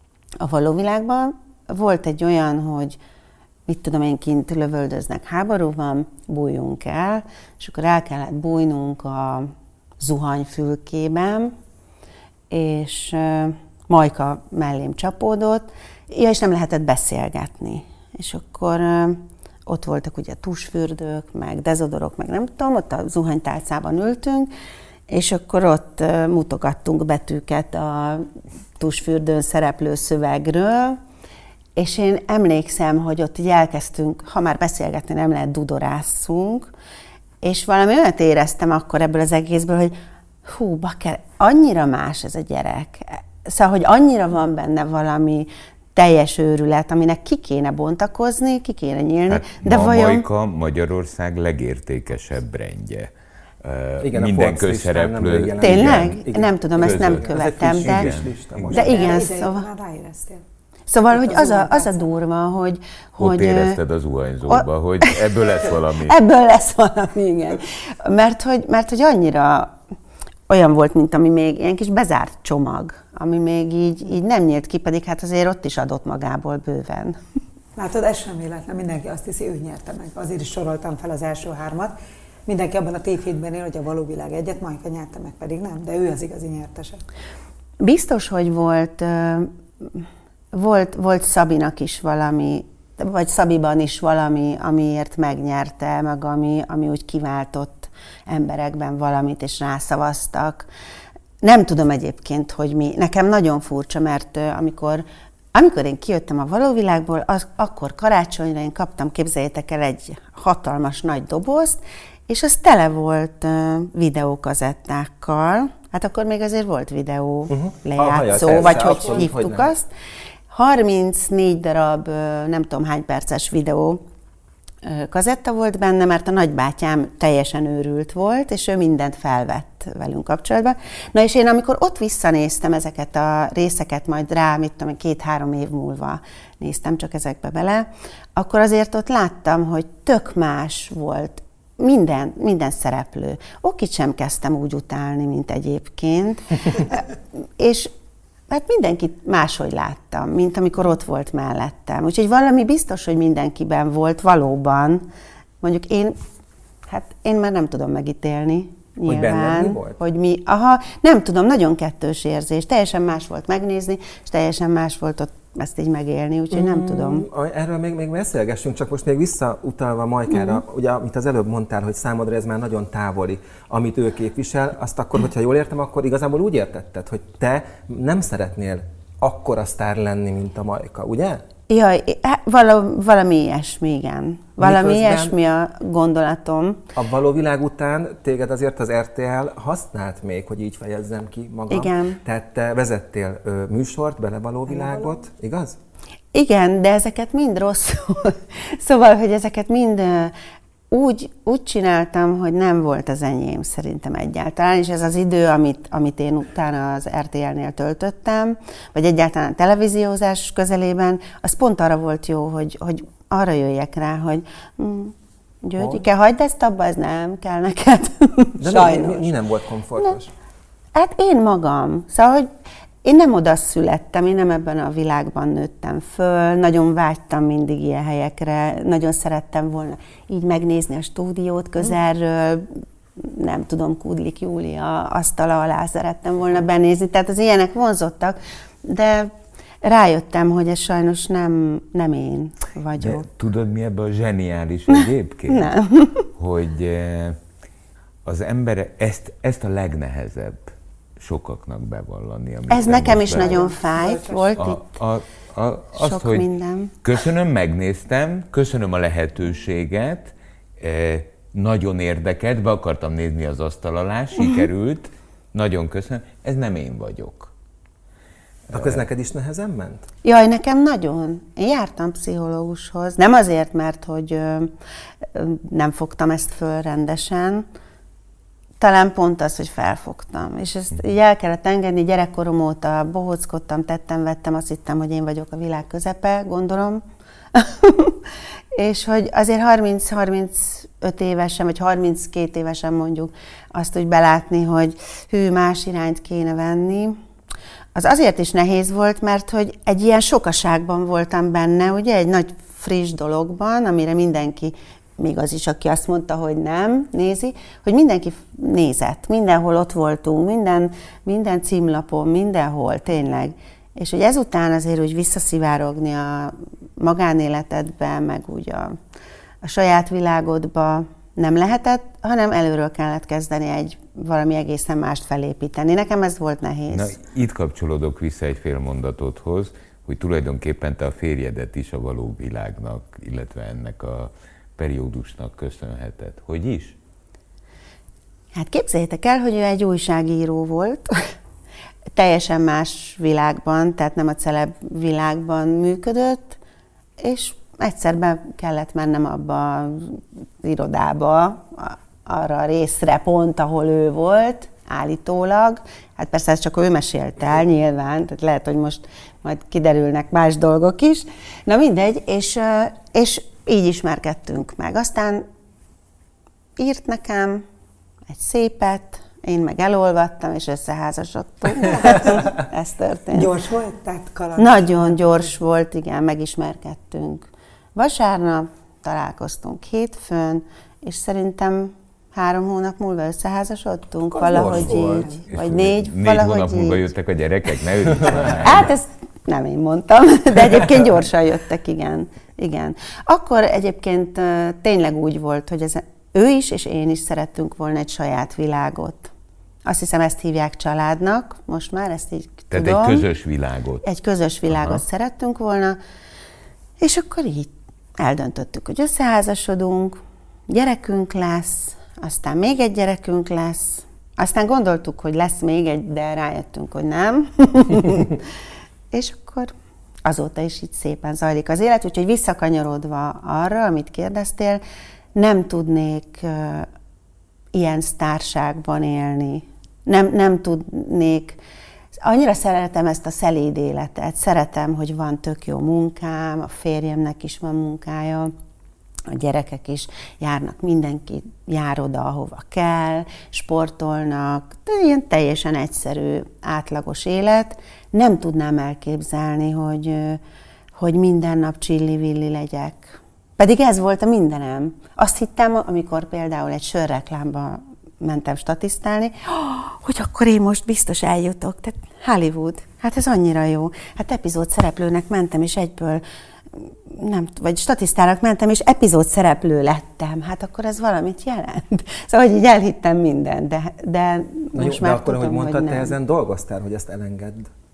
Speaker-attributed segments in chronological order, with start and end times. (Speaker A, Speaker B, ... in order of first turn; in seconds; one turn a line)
Speaker A: 0.4-3.0
Speaker A: 3.7-11.5
Speaker A: 12.5-24.5
Speaker A: 25.1-28.3
Speaker A: 28.8-31.0
Speaker A: 31.8-36.7
Speaker A: 37.4-50.2
Speaker B: 49.3-56.1
Speaker C: 54.0-59.2
Speaker A: 55.6-58.1
Speaker B: 56.8-58.7
Speaker D: 58.7-60.4
Speaker A: 58.7-59.6
Speaker A: 60.9-63.8
Speaker D: 61.1-62.1
Speaker B: 63.2-66.2
Speaker A: 64.5-69.7
Speaker A: 70.5-77.2
Speaker D: 77.8-81.9
Speaker D: 82.5-87.0
Speaker A: 87.8-100.7
Speaker A: 101.4-119.9
Speaker C: 117.5-119.7
Speaker D: 118.5-119.2
Speaker A: 120.5-124.0
Speaker A: 124.8-147.9
Speaker A: 148.5-155.1
Speaker A: 155.6-156.2
Speaker A: 156.9-167.3
Speaker C: 159.1-160.0
Speaker C: 166.5-181.4
Speaker A: 181.7-186.8
Speaker C: 184.6-185.3
Speaker C: 186.9-195.8
Speaker A: 191.7-192.2
Speaker D: 194.7-195.2
Speaker A: 196.3-200.3
Speaker A: 200.9-219.3
Speaker C: 215.8-216.0
Speaker C: 218.6-220.3
Speaker A: 220.9-222.5
Speaker A: 223.0-239.3
Speaker A: 239.8-243.3
Speaker B: 243.0-245.7
Speaker A: 245.5-246.3
Speaker B: 246.3-247.4
Speaker B: 248.2-253.7
Speaker A: 252.7-254.9
Speaker D: 253.3-254.5
Speaker B: 254.6-256.4
Speaker A: 255.9-256.9
Speaker B: 257.0-267.5
Speaker C: 268.7-270.1
Speaker B: 268.7-269.0
Speaker A: 270.2-274.7
Speaker A: 275.3-277.6
Speaker A: 278.8-288.2
Speaker A: 288.7-297.2
Speaker A: 297.9-319.0
Speaker A: 319.6-327.1
Speaker B: 326.9-336.9
Speaker A: 338.5-341.2
Speaker A: 342.1-346.6
Speaker A: 347.2-365.4
Speaker A: 366.8-367.6
Speaker A: 368.3-373.5
Speaker D: 371.8-372.5
Speaker D: 373.3-375.5
Speaker A: 374.6-387.0
Speaker D: 384.3-385.4
Speaker C: 384.5-385.3
Speaker B: 385.5-388.9
Speaker A: 388.4-399.3
Speaker A: 399.8-403.3
Speaker B: 402.7-404.0
Speaker A: 404.0-406.0
Speaker B: 404.7-405.0
Speaker A: 407.0-418.5
Speaker A: 419.1-419.7
Speaker A: 420.2-424.8
Speaker A: 425.3-426.9
Speaker A: 427.7-431.6
Speaker A: 432.1-438.5
Speaker A: 439.3-450.4
Speaker A: 450.9-476.1
Speaker C: 474.7-477.7